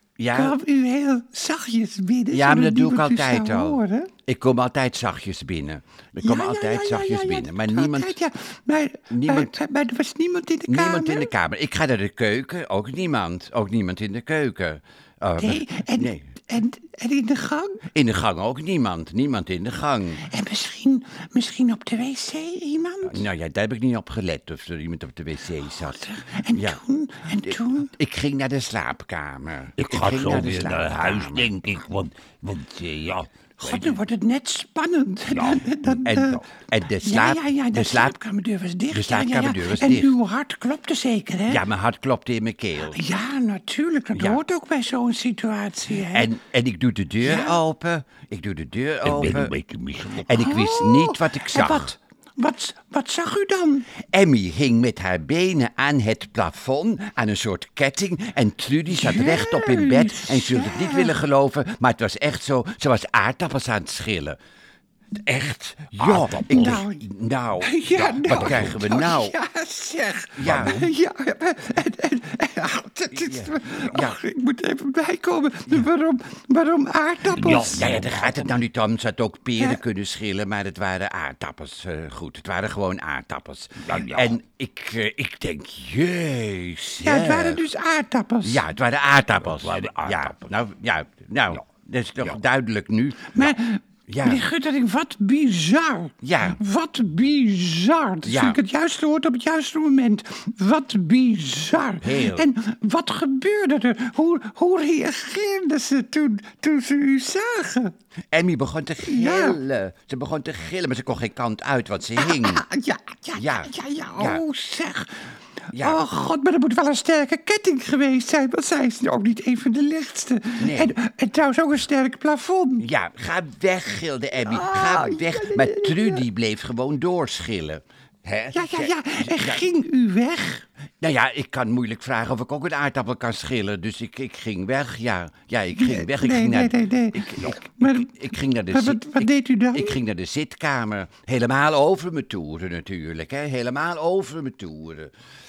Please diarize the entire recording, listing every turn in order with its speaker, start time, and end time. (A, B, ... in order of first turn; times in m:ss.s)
0:00.2-0:00.5 A
0:00.3-0:04.1 B
0:02.3-0:08.1 A
0:06.2-0:11.3 B
0:09.1-0:09.5 A
0:10.7-0:16.2 A
0:15.4-0:17.8 B
0:17.9-0:20.2 A
0:20.2-0:23.3 B
0:23.0-0:26.8 A
0:25.6-0:27.9 B
0:27.4-0:31.5 A
0:29.8-0:33.9 C
0:33.6-0:36.4 B
0:35.3-0:35.7 C
0:35.8-0:38.1 A
0:37.0-0:41.6 B
0:38.9-0:40.1 A
0:41.5-0:43.0 A
0:42.8-0:46.3 B
0:44.1-0:44.4 A
0:46.1-0:49.5 A
0:47.2-0:47.6 B
0:49.0-0:50.3 C
0:50.2-0:51.9 A
0:50.2-0:53.9 B
0:54.1-1:04.4 A
0:58.9-1:01.2 B
1:05.2-1:09.3 A
1:06.0-1:06.8 C
1:06.5-1:07.0 B
1:07.6-1:17.9 B
1:08.0-1:08.8 C
1:10.4-1:10.9 A
1:10.4-1:10.8 C
1:13.1-1:14.2 A
1:17.3-1:18.6 C
1:17.4-1:27.6 A
1:23.8-1:24.4 C
1:27.0-1:28.6 B
1:28.4-1:34.4 A
1:29.4-1:30.4 C
1:33.3-1:47.9 B
1:36.2-1:36.6 A
1:38.2-1:38.6 A
1:42.0-1:42.5 A
1:48.3-1:52.6 A
1:49.0-1:49.6 B
1:52.2-2:02.9 B
1:53.4-1:54.4 A
1:55.7-1:56.0 A
2:00.6-2:00.9 A
2:02.8-2:09.6 A
2:04.4-2:06.2 B
2:08.5-2:10.6 B
2:11.0-2:25.1 A
2:15.8-2:20.0 B